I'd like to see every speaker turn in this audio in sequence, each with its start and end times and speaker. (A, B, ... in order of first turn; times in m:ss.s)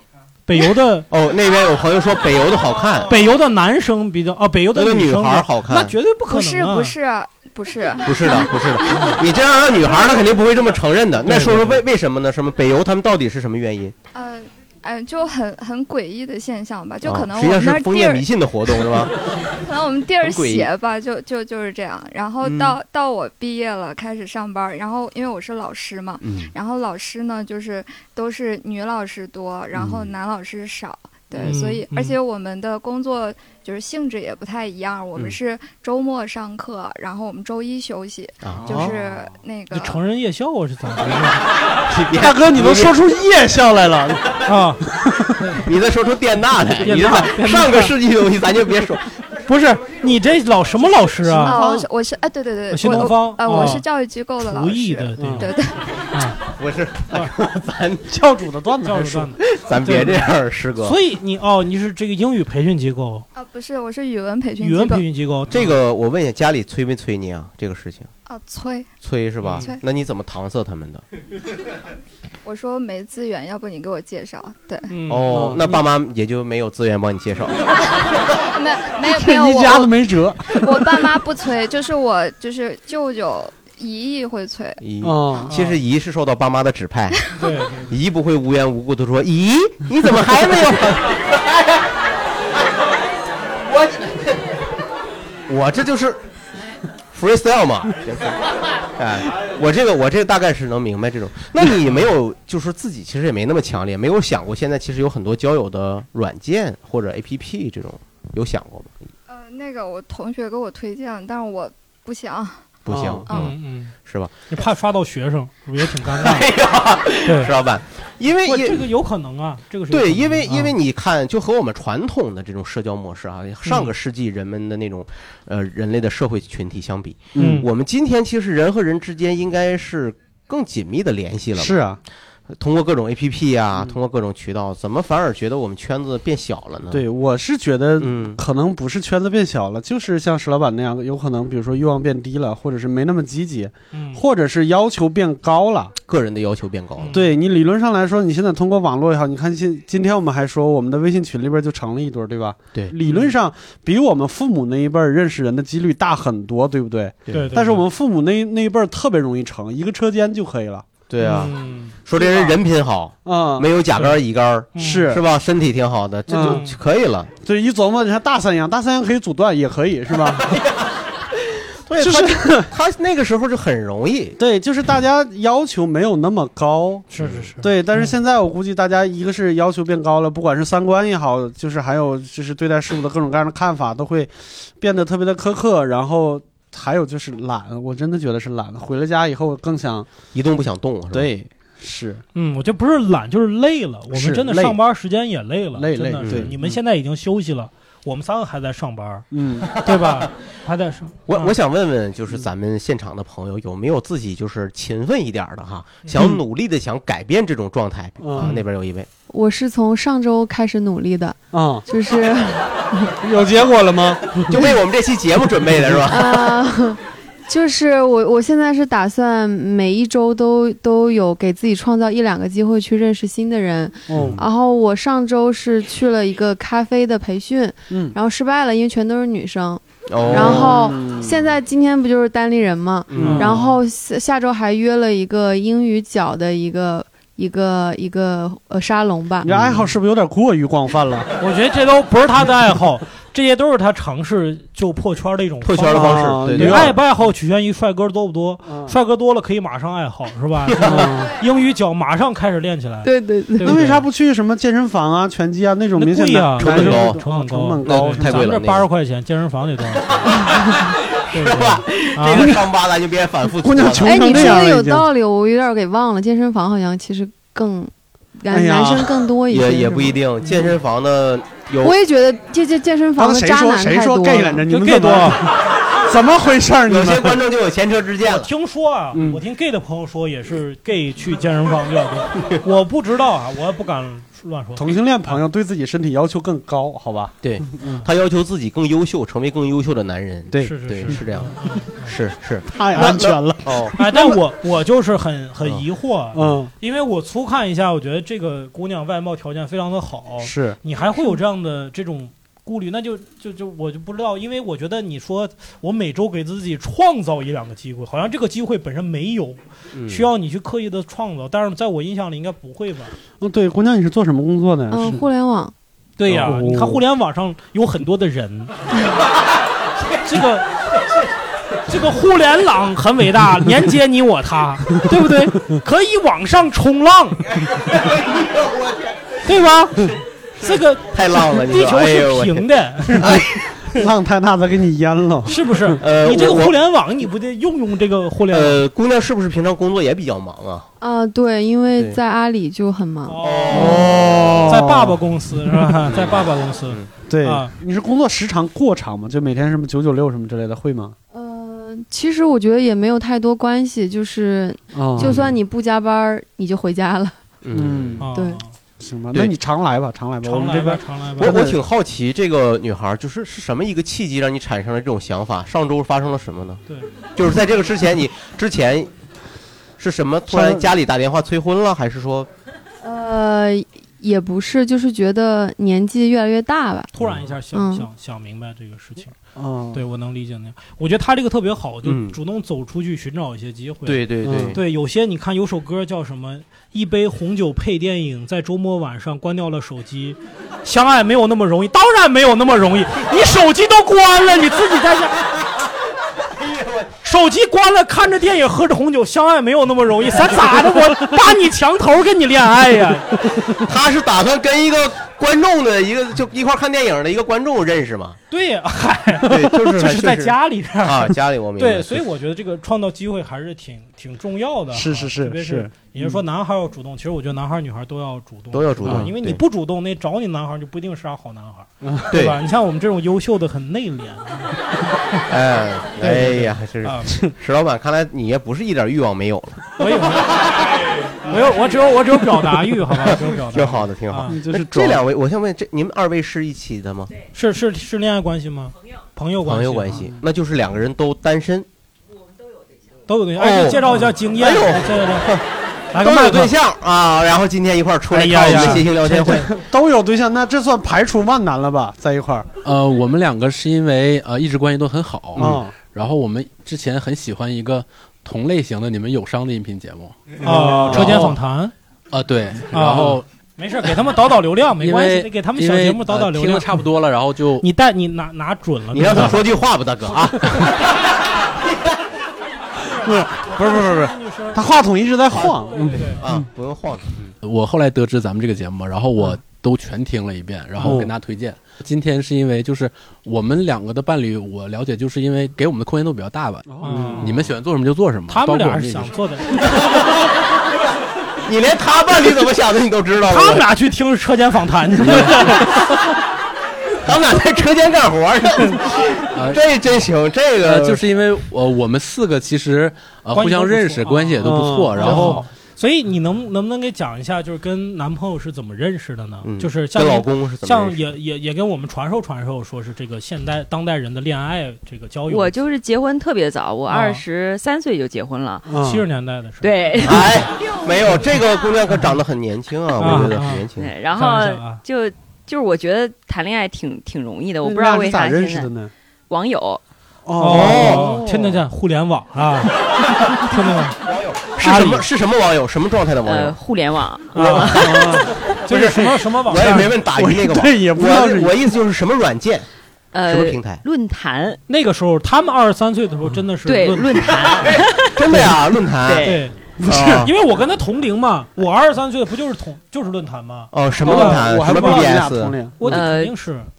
0:00.5-0:01.1 A
0:01.1-0:03.1 B
0:03.1-0:06.9 A
0:04.7-0:05.9 B
0:06.3-0:09.2 C
0:08.0-0:13.9 B
0:09.9-0:10.2 C
0:11.3-0:11.8 D
0:14.1-0:40.0 C
0:17.0-0:19.1 B
0:20.2-0:20.7 B
0:22.4-0:22.8 B
0:26.2-0:26.5 B
0:29.7-0:30.1 B
0:31.4-0:32.2 A
0:38.4-0:38.9 B
0:39.7-0:41.4 A
0:41.9-0:43.0 B
0:42.2-0:44.4 D
0:44.4-0:44.8 A
0:44.9-0:45.3 D
0:45.4-0:45.6 A
0:45.6-0:49.0 B
0:46.8-0:47.9 A
0:49.4-0:51.6 A
0:51.3-0:55.8 C
0:52.7-0:53.8 A
0:54.4-0:55.5 A
0:55.2-0:55.5 D
0:56.1-0:56.4 A
0:56.5-0:58.2 B
0:58.1-0:59.3 D
0:58.8-1:03.2 A
0:59.4-1:01.0 B
1:03.3-1:05.1 C
1:04.6-1:05.7 A
1:05.5-1:08.1 B
1:08.2-1:08.9 C
1:09.0-1:11.0 B
1:09.4-1:09.7 A
1:09.5-1:09.8 C
1:12.4-1:14.9 C
1:14.9-1:15.3 A
1:15.1-1:17.8 B
1:15.3-1:15.8 D
1:18.4-1:24.8 C
1:19.1-1:20.5 D
1:24.8-1:27.2 B
1:25.0-1:25.5 D
1:25.5-1:25.8 A
1:27.4-1:27.9 A
1:27.9-1:31.7 B
1:33.7-1:34.2 B
1:35.5-1:36.2 B
1:37.1-1:49.0 B
1:49.3-1:52.8 C
1:52.8-1:53.5 B
1:52.9-1:53.2 D
1:53.3-1:53.9 A
1:54.0-1:54.4 B
1:54.5-1:56.5 A
1:55.9-1:58.9 B
1:57.2-1:57.5 A
1:58.4-2:00.7 A
1:59.9-2:11.8 B
2:07.3-2:07.6 D
2:07.4-2:07.7 A
2:11.6-2:12.0 D
2:12.5-2:17.0 B
2:16.9-2:25.9 D
2:18.0-2:18.4 B
2:23.9-2:24.2 A
2:26.0-2:27.2 B
2:27.0-2:27.3 A
2:27.1-2:40.9 D
2:33.0-2:33.3 A
2:37.3-2:37.8 A
2:41.1-2:47.3 B
2:41.2-2:42.5 A
2:43.2-2:43.7 D
2:44.7-2:45.0 A
2:44.8-2:45.2 D
2:46.3-2:46.6 D
2:46.4-2:46.8 A
2:47.4-2:50.5 D
2:50.5-2:50.8 B
2:51.8-2:54.4 B
2:52.0-2:52.7 D
2:54.4-3:10.1 D
2:57.1-2:58.1 A
2:57.2-2:57.5 B
3:10.3-3:11.3 B
3:11.1-3:12.2 D
3:12.3-3:21.5 A
3:14.1-3:14.8 D
3:15.7-3:16.8 D
3:16.2-3:16.5 B
3:19.3-3:19.8 D
3:21.3-3:29.1 B
3:28.2-3:28.6 D
3:29.3-3:32.6 E
3:31.5-3:31.8 D
3:33.2-3:34.5 D
3:34.5-3:36.6 B
3:36.0-3:59.5 E
3:44.1-3:44.4 D
3:44.1-3:44.4 B
3:47.9-3:48.1 D
3:50.1-3:50.9 B
3:50.2-3:51.5 D
3:53.1-3:53.5 B
3:53.2-3:53.6 D
3:53.2-3:53.7 A
3:59.4-4:01.3 D
4:01.4-4:14.0 A
4:05.6-4:07.0 B
4:05.9-4:07.0 D
4:08.6-4:09.0 D
4:10.7-4:11.0 B
4:10.8-4:11.3 D
4:13.0-4:13.8 E
4:13.6-4:18.6 D
4:16.0-4:20.3 A
4:16.6-4:17.2 B
4:17.8-4:18.8 B
4:21.3-4:24.6 B
4:21.3-4:22.5 A
4:23.6-4:25.1 D
4:24.0-4:30.2 E
4:28.5-4:29.2 D
4:29.5-4:32.0 B
4:31.8-4:34.7 E
4:33.2-4:37.4 D
4:34.7-4:35.4 A
4:36.8-4:38.5 B
4:38.2-4:45.4 A
4:39.1-4:39.4 D
4:44.8-4:48.0 D
4:47.4-4:54.3 B
4:50.5-4:51.2 D
4:50.6-4:52.1 A
4:52.7-4:54.0 D
4:54.0-5:13.1 A
4:56.3-4:56.7 D
5:00.4-5:00.8 D
5:09.9-5:10.3 B
5:13.4-5:15.2 D
5:14.9-5:15.7 E
5:16.2-5:18.7 A
5:16.2-5:17.0 D
5:20.1-5:21.1 A
5:21.7-5:27.6 A
5:27.9-5:29.1 B
5:29.4-5:33.4 A
5:30.6-5:32.7 B
5:33.1-5:35.9 D
5:35.4-5:38.8 A
5:36.0-5:36.8 B
5:38.5-5:40.9 B
5:41.0-5:44.0 E
5:43.3-5:44.1 A
5:43.4-5:44.7 B
5:43.7-5:45.2 D
5:44.6-5:47.7 A
5:46.1-5:47.1 B
5:47.2-5:51.1 D
5:51.3-5:57.4 E
5:54.9-5:55.5 D
5:55.2-5:55.5 B
5:57.6-5:58.2 B
5:57.7-5:58.2 D
5:58.2-5:58.7 A
5:58.3-5:58.6 E
5:59.0-6:01.8 D
6:00.4-6:01.6 A
6:01.4-6:06.8 B
6:07.3-6:09.1 B
6:10.0-6:12.5 B
6:10.5-6:10.9 D
6:13.0-6:17.1 E
6:17.1-6:19.3 A
6:17.7-6:18.1 E
6:19.6-6:20.0 D
6:19.9-6:35.6 A
6:22.0-6:22.4 B
6:24.0-6:24.8 B
6:24.4-6:24.8 D
6:36.4-6:37.1 B
6:37.2-6:43.6 A
6:43.8-6:48.4 B
6:48.5-7:04.8 A
6:49.4-6:52.2 B
6:54.9-6:56.4 D
6:58.7-6:59.6 B
7:02.3-7:02.6 B
7:05.5-7:09.9 B
7:06.2-7:07.4 A
7:10.0-7:10.7 A
7:11.4-7:14.5 A
7:13.1-7:17.3 B
7:14.5-7:15.2 D
7:17.5-7:20.1 A
7:19.6-7:21.9 B
7:23.3-7:25.5 A
7:23.6-7:25.6 B
7:26.1-7:26.7 A
7:26.2-7:29.7 B
7:28.3-7:29.7 A
7:28.7-7:32.7 D
7:32.8-7:41.5 F
7:35.5-7:36.0 D
7:40.6-7:41.5 D
7:40.6-7:41.9 A
7:42.3-7:43.4 F
7:42.9-7:47.1 A
7:45.0-7:47.8 F
7:47.8-7:49.6 A
7:49.1-7:52.1 B
7:53.0-7:54.8 A
7:53.1-7:56.6 D
7:55.9-7:56.4 A
7:56.3-7:57.5 B
7:57.6-8:09.3 F
8:01.0-8:01.2 A
8:01.0-8:01.3 D
8:06.9-8:07.6 D
8:07.0-8:07.5 A
8:08.5-8:10.2 A
8:11.6-8:13.9 B
8:13.4-8:16.0 A
8:15.2-8:15.9 B
8:17.2-8:21.2 B
8:19.5-8:19.8 F
8:20.8-8:25.6 F
8:23.5-8:35.7 A
8:24.6-8:25.4 D
8:25.3-8:25.6 B
8:29.6-8:31.2 B
8:35.5-8:38.9 G
8:37.1-8:37.4 A
8:38.8-8:39.2 D
8:39.0-8:40.5 A
8:39.8-8:40.9 G
8:40.2-8:44.1 B
8:43.2-8:45.0 A
8:43.2-8:43.5 D
8:44.0-8:48.9 G
8:47.8-8:49.1 D
8:49.5-8:50.0 G
8:50.4-8:51.8 D
8:50.6-8:54.2 A
8:50.7-8:51.3 B
8:54.2-8:56.8 B
8:54.8-8:55.2 A
8:56.4-8:58.5 G
8:57.5-8:58.0 A
8:57.9-8:58.5 D
8:58.8-9:00.2 A
8:58.9-9:02.9 B
9:00.3-9:01.8 D
9:03.3-9:04.8 G
9:03.4-9:04.0 B
9:04.9-9:07.8 A
9:06.8-9:08.7 G
9:07.7-9:09.5 B
9:09.2-9:09.6 G
9:09.4-9:15.3 A
9:10.0-9:10.5 D
9:10.1-9:10.5 B
9:13.9-9:15.8 B
9:14.2-9:16.0 D
9:16.0-9:16.9 A
9:16.0-9:16.5 G